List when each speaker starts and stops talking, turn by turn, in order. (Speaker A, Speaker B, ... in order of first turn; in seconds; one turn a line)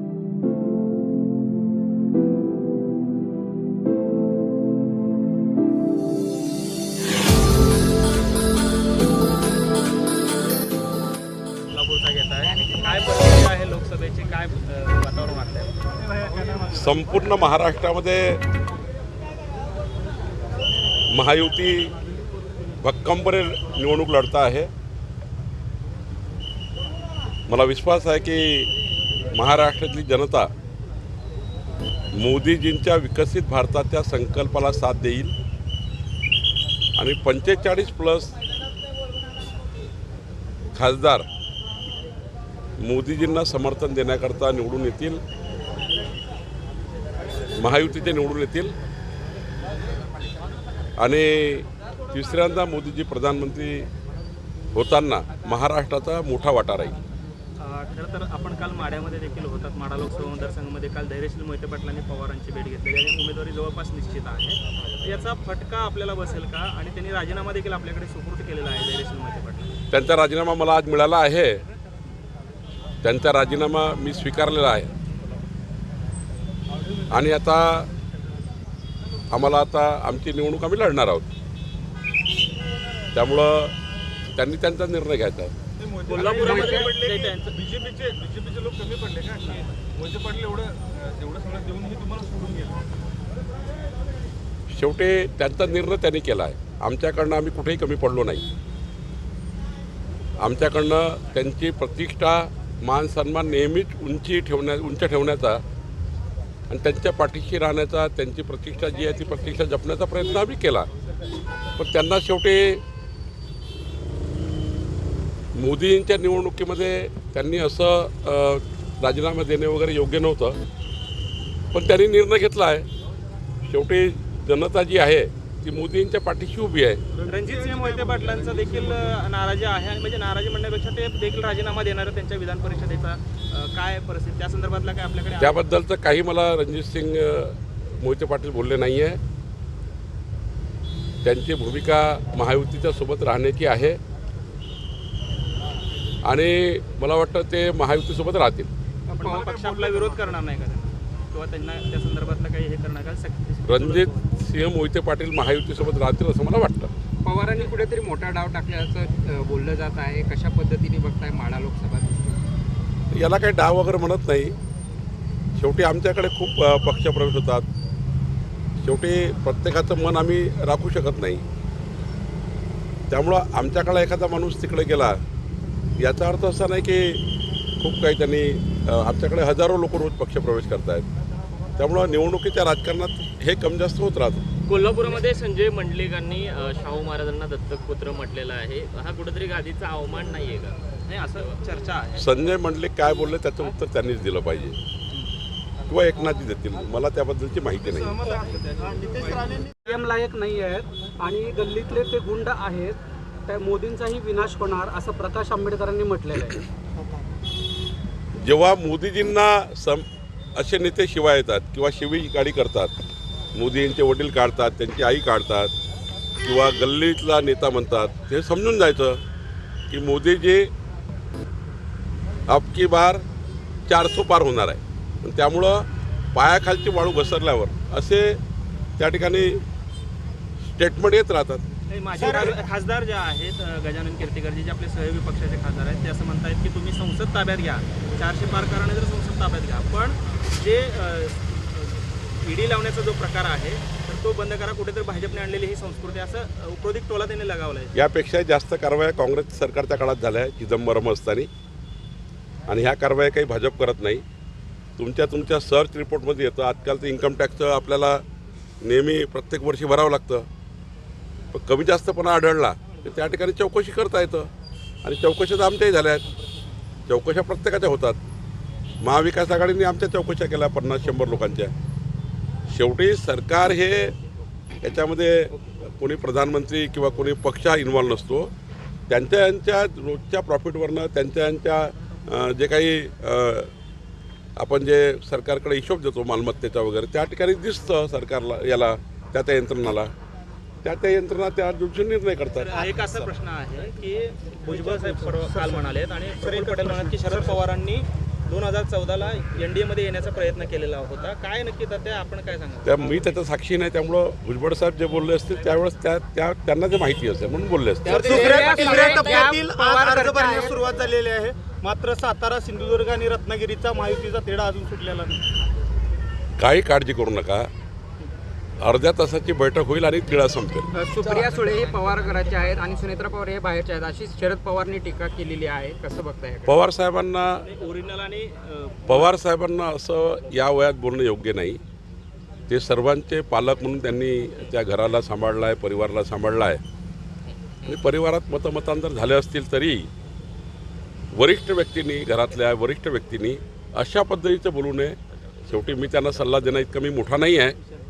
Speaker A: 11.7-15.7
Speaker B: 16.7-18.4
Speaker B: 21.1-21.9
Speaker B: 22.8-24.7
Speaker B: 27.5-28.7
Speaker B: 29.3-30.5
Speaker B: 32.2-35.3
Speaker B: 37.0-38.3
Speaker B: 40.8-41.3
Speaker B: 42.8-45.2
Speaker B: 47.6-48.7
Speaker B: 51.0-53.9
Speaker B: 54.8-57.0
Speaker A: 57.6-69.8
Speaker B: 69.9-71.6
Speaker B: 73.0-74.9
Speaker B: 77.1-77.9
Speaker B: 79.3-81.3
Speaker B: 83.1-83.7
Speaker B: 84.4-85.5
Speaker C: 85.8-86.9
Speaker A: 86.1-87.5
Speaker D: 86.5-86.9
Speaker E: 86.8-87.3
Speaker C: 87.5-92.8
Speaker B: 94.7-98.4
Speaker B: 100.4-105.6
Speaker B: 106.7-110.9
Speaker B: 111.8-112.8
Speaker B: 115.5-120.6
Speaker B: 121.7-122.9
Speaker B: 123.6-127.0
Speaker E: 127.2-128.3
Speaker A: 127.3-135.7
Speaker B: 135.4-139.2
Speaker B: 141.2-144.0
Speaker B: 146.3-148.7
Speaker D: 149.1-149.4
Speaker A: 149.2-154.2
Speaker C: 149.3-150.2
Speaker B: 153.7-156.9
Speaker D: 157.2-162.4
Speaker B: 163.1-164.6
Speaker B: 165.6-167.7
Speaker B: 168.8-171.4
Speaker B: 173.1-175.2
Speaker B: 176.0-177.2
Speaker B: 177.8-181.1
Speaker B: 181.8-184.4
Speaker F: 184.7-190.8
Speaker A: 191.1-192.3
Speaker B: 192.2-194.8
Speaker B: 195.9-198.2
Speaker C: 198.0-199.5
Speaker E: 198.9-199.6
Speaker G: 199.8-206.6
Speaker B: 208.4-210.1
Speaker B: 210.6-212.9
Speaker B: 213.6-215.7
Speaker B: 216.4-219.2
Speaker B: 219.9-220.7
Speaker B: 222.5-223.2
Speaker B: 223.9-228.4
Speaker B: 229.0-229.6
Speaker B: 230.7-231.6
Speaker A: 231.9-247.9
Speaker E: 232.2-232.6
Speaker B: 247.9-251.5
Speaker B: 252.7-254.2
Speaker B: 255.0-258.2
Speaker B: 258.8-260.5
Speaker B: 261.5-264.5
Speaker B: 265.0-266.2
Speaker B: 267.1-268.2
Speaker B: 269.0-271.7
Speaker B: 272.7-274.1
Speaker B: 274.8-278.5
Speaker B: 279.1-283.7
Speaker B: 284.6-290.1
Speaker B: 290.8-292.8
Speaker A: 292.6-303.2
Speaker E: 294.7-295.8
Speaker E: 296.4-297.6
Speaker B: 302.9-308.4
Speaker E: 308.1-315.4
Speaker D: 308.1-310.8
Speaker F: 308.2-309.6
Speaker B: 316.6-317.7
Speaker B: 318.8-320.9
Speaker D: 320.9-326.8
Speaker B: 326.7-327.6
Speaker A: 327.6-329.3
Speaker B: 329.1-331.8
Speaker B: 332.7-336.8
Speaker B: 337.8-340.1
Speaker B: 341.3-347.8